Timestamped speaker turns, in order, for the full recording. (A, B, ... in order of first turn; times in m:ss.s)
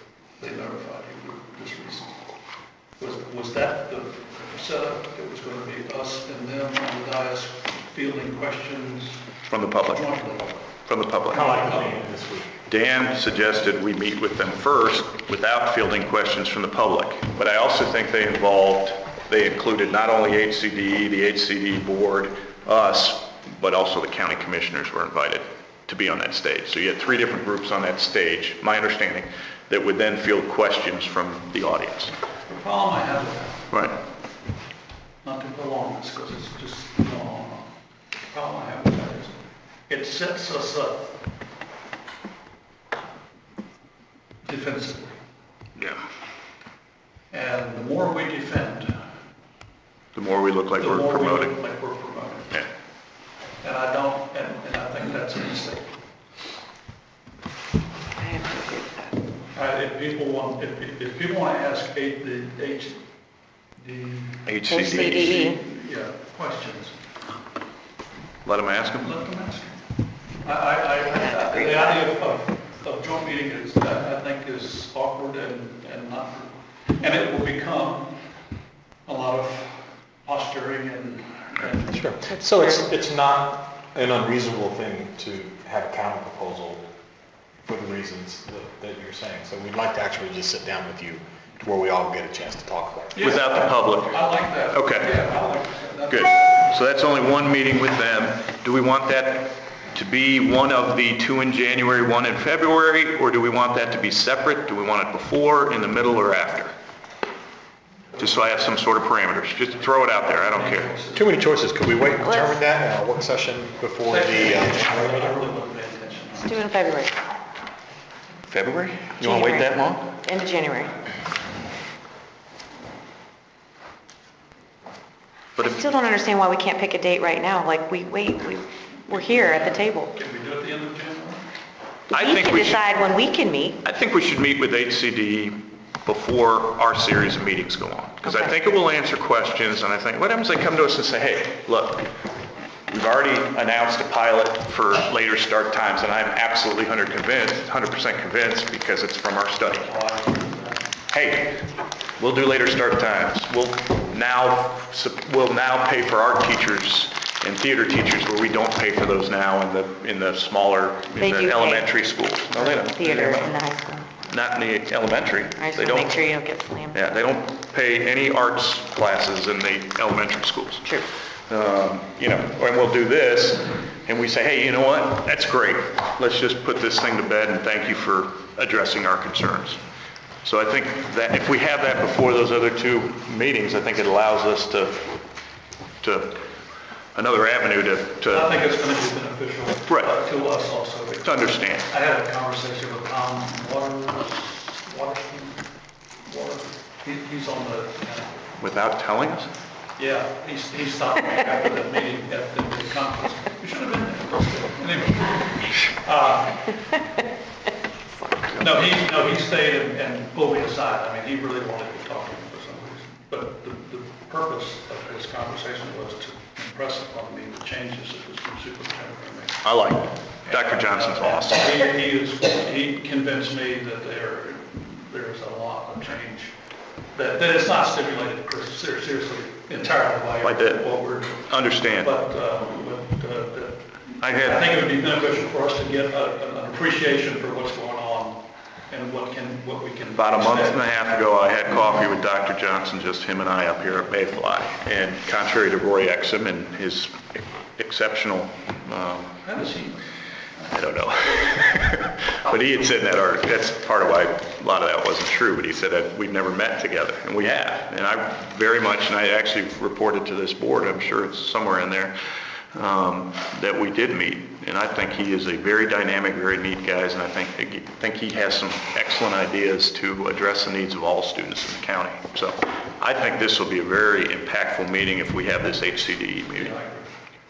0:00.4-0:02.1 A
0:03.0-0:09.2 A
0:09.5-0:10.1 B
0:09.8-0:10.7 A
0:10.8-0:11.5 B
0:11.3-0:12.0 A
0:11.3-0:12.5 C
0:12.7-0:32.1 B
0:32.5-0:33.7 A
0:35.2-0:37.7 A
0:38.2-0:39.3 A
0:39.9-0:41.1 A
0:44.4-0:45.2 A
0:47.3-0:49.0 A
0:50.1-0:51.6 B
0:50.8-0:52.6 A
0:53.6-0:55.9 A
0:58.2-0:59.1 D
0:59.5-1:03.0 A
1:03.8-1:04.5 A
1:04.4-1:05.5 B
1:04.7-1:05.6 D
1:05.1-1:07.0 A
1:08.4-1:09.1 B
1:09.0-1:09.7 A
1:10.4-1:18.1 A
1:11.2-1:12.0 D
1:19.0-1:22.2 A
1:21.9-1:26.8 C
1:27.6-1:33.3 C
1:33.1-1:36.7 A
1:33.2-1:35.1 B
1:36.1-1:46.7 B
1:48.1-1:49.0 A
1:48.2-1:50.9 B
1:49.6-1:51.4 A
1:51.1-1:55.4 C
1:52.2-1:52.6 D
1:54.0-1:56.6 A
1:56.4-1:57.1 D
1:58.5-2:00.1 B
1:59.2-2:00.9 D
2:05.6-2:10.1 D
2:09.1-2:11.4 A
2:12.1-2:13.8 D
2:12.1-2:13.0 B
2:13.8-2:22.1 B
2:18.2-2:18.5 D
2:22.9-2:29.9 B
2:29.8-2:30.9 A
2:31.1-2:31.6 B
2:32.2-2:43.5 B
2:41.1-2:41.9 D
2:42.5-2:44.2 D
2:44.2-2:46.3 B
2:45.6-2:47.0 D
2:46.9-2:50.9 B
2:51.5-2:59.8 B
3:00.4-3:05.1 B
3:06.0-3:06.4 B
3:07.1-3:08.5 B
3:08.2-3:15.6 A
3:09.9-3:10.1 B
3:11.2-3:11.9 B
3:16.2-3:18.6 A
3:18.6-3:19.5 B
3:20.0-3:26.8 A
3:28.6-3:39.6 A
3:39.6-3:41.7 B
3:40.4-3:46.5 A
3:47.1-4:00.8 A
3:50.4-3:52.1 B
3:54.2-3:54.7 B
4:00.2-4:09.3 B
4:09.4-4:10.0 A
4:10.7-4:22.1 B
4:22.7-4:36.8 B
4:36.5-4:37.1 A